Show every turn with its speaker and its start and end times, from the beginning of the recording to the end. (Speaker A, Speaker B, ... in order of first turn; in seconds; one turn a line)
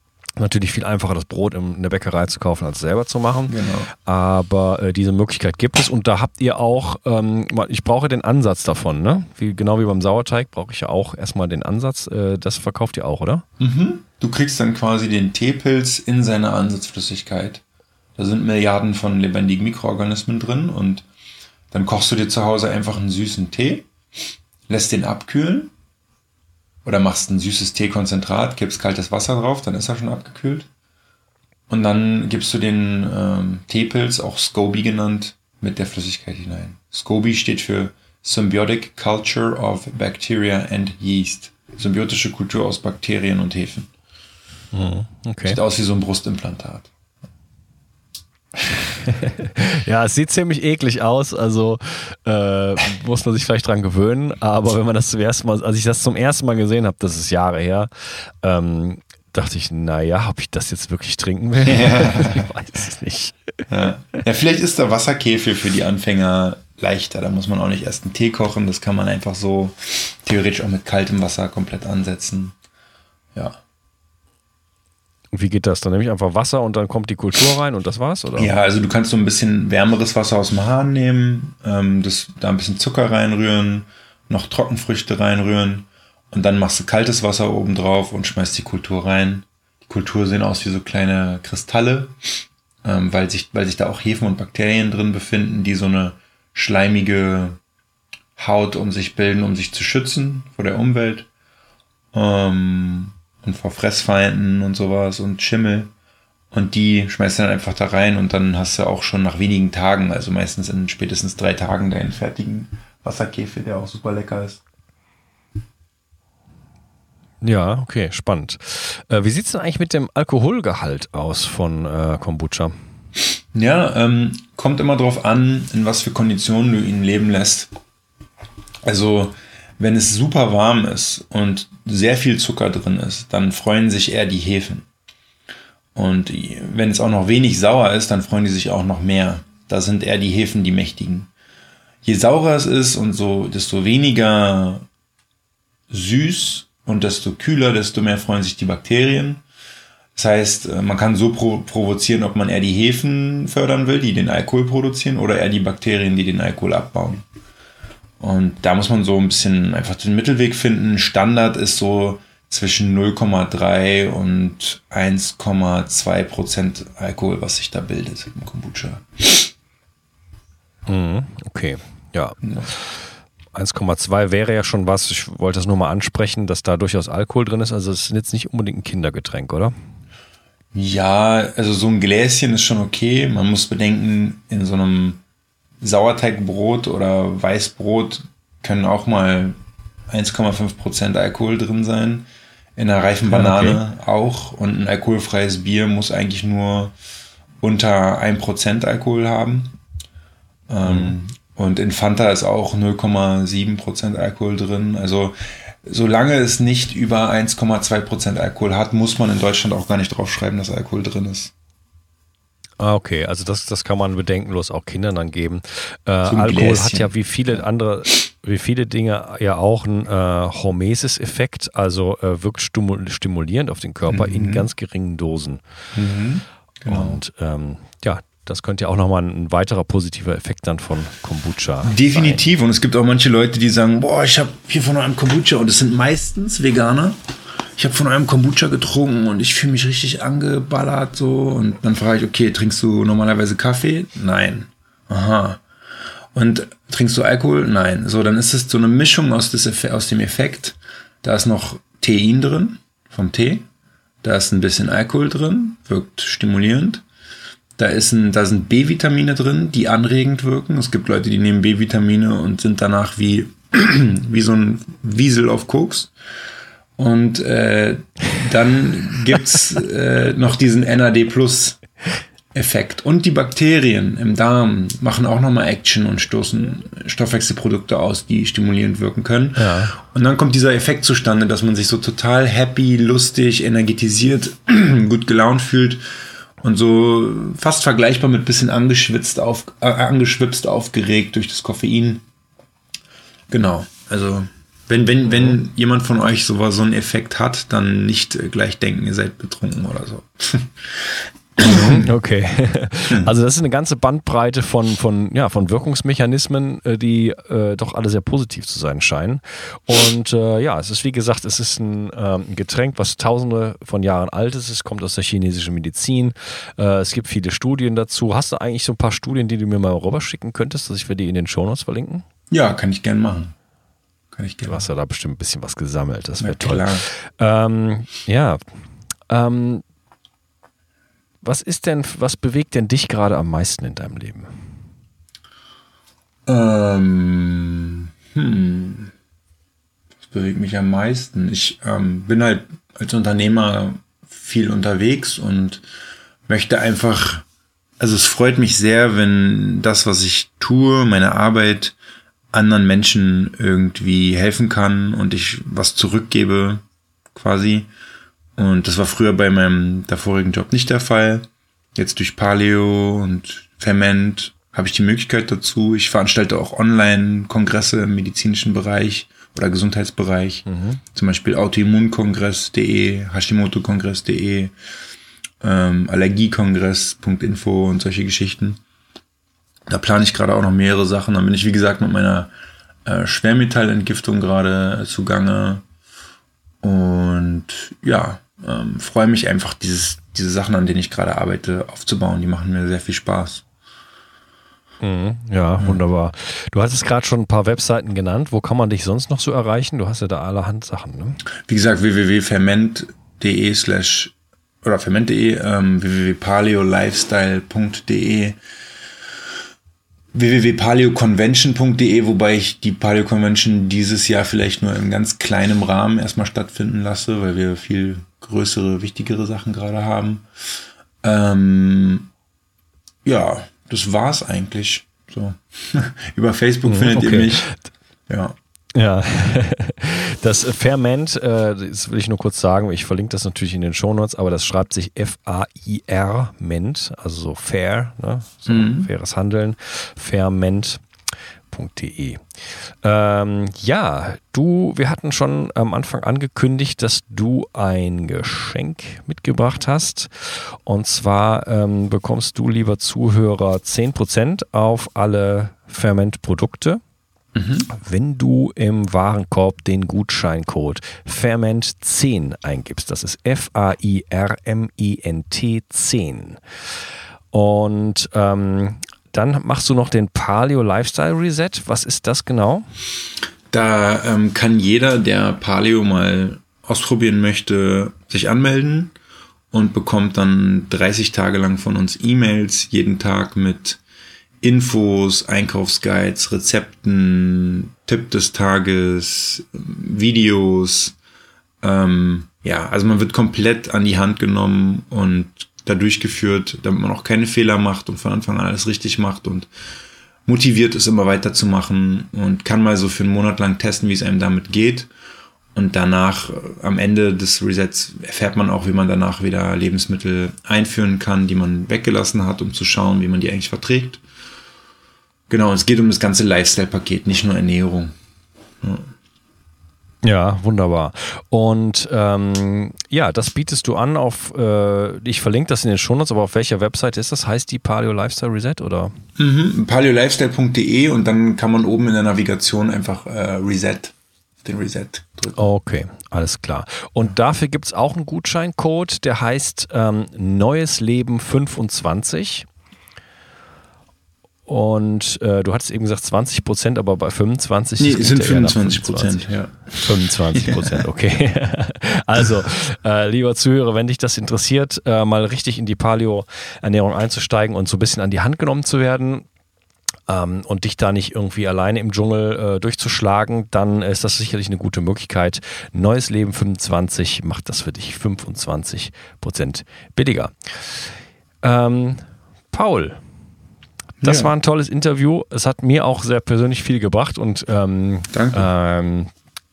Speaker A: 0.4-13.4
Speaker B: 3.5-3.9
Speaker B: 13.6-17.6
Speaker B: 18.2-21.1
Speaker B: 21.7-23.9
Speaker B: 24.7-25.7
Speaker B: 26.9-30.7
Speaker B: 31.7-43.9
Speaker A: 44.7-45.6
Speaker B: 45.5-46.9
Speaker A: 48.9-57.9
Speaker A: 58.4-63.4
Speaker B: 61.6-62.5
Speaker B: 63.7-72.5
Speaker A: 75.3-78.6
Speaker B: 78.4-92.1
Speaker B: 92.8-97.6
Speaker B: 98.4-101.3
Speaker B: 102.1-105.9
Speaker B: 106.5-114.6
Speaker A: 117.4-122.7
Speaker B: 123.5-127.7
Speaker B: 128.8-134.9
Speaker B: 135.9-141.3
Speaker B: 142.0-144.9
Speaker B: 145.9-149.4
Speaker B: 150.2-157.2
Speaker B: 158.2-169.5
Speaker A: 170.9-172.8
Speaker B: 172.4-172.7
Speaker A: 173.5-179.7
Speaker B: 180.7-185.2
Speaker B: 185.8-189.6
Speaker B: 190.1-196.9
Speaker A: 193.3-193.8
Speaker B: 197.6-199.7
Speaker B: 200.7-211.5
Speaker A: 200.9-201.2
Speaker A: 212.8-225.6
Speaker B: 216.3-217.1
Speaker B: 224.1-224.7
Speaker B: 225.9-227.2
Speaker A: 226.9-232.4
Speaker B: 231.8-237.2
Speaker B: 237.8-245.6
Speaker B: 246.3-253.7
Speaker B: 254.2-257.0
Speaker B: 257.8-266.1
Speaker B: 267.0-271.8
Speaker B: 272.5-286.0
Speaker A: 279.6-279.9
Speaker B: 286.6-292.2
Speaker B: 293.5-302.1
Speaker A: 301.6-322.2
Speaker B: 322.5-323.5
Speaker B: 324.3-324.8
Speaker A: 324.6-328.6
Speaker B: 326.4-327.1
Speaker A: 329.3-329.8
Speaker A: 331.4-334.5
Speaker B: 336.5-339.1
Speaker B: 340.2-345.8
Speaker B: 346.5-347.5
Speaker B: 348.0-352.0
Speaker B: 352.5-357.9
Speaker B: 358.6-374.7
Speaker A: 370.7-371.0
Speaker B: 375.6-378.8
Speaker B: 379.9-382.5
Speaker B: 383.1-385.8
Speaker B: 386.8-393.6
Speaker A: 395.0-401.4
Speaker B: 401.7-408.6
Speaker B: 410.3-420.4
Speaker B: 421.2-422.3
Speaker B: 423.2-427.7
Speaker A: 426.8-427.8
Speaker B: 428.3-428.6
Speaker A: 428.9-441.0
Speaker B: 438.7-439.1
Speaker A: 441.7-442.4
Speaker A: 443.0-457.0
Speaker B: 457.6-457.9
Speaker A: 457.9-466.6
Speaker A: 467.5-472.9
Speaker B: 473.7-479.1
Speaker B: 479.7-484.0
Speaker B: 484.6-491.2
Speaker B: 491.8-499.7
Speaker B: 500.5-505.1
Speaker B: 505.7-514.2
Speaker B: 515.5-518.1
Speaker B: 518.8-519.1
Speaker A: 520.2-529.1
Speaker B: 529.4-535.6
Speaker A: 535.5-542.7
Speaker A: 544.7-549.5
Speaker B: 548.0-551.0
Speaker A: 550.0-559.5
Speaker A: 560.3-570.5
Speaker A: 571.6-573.2
Speaker B: 574.2-574.5
Speaker A: 574.2-579.3
Speaker B: 578.3-578.7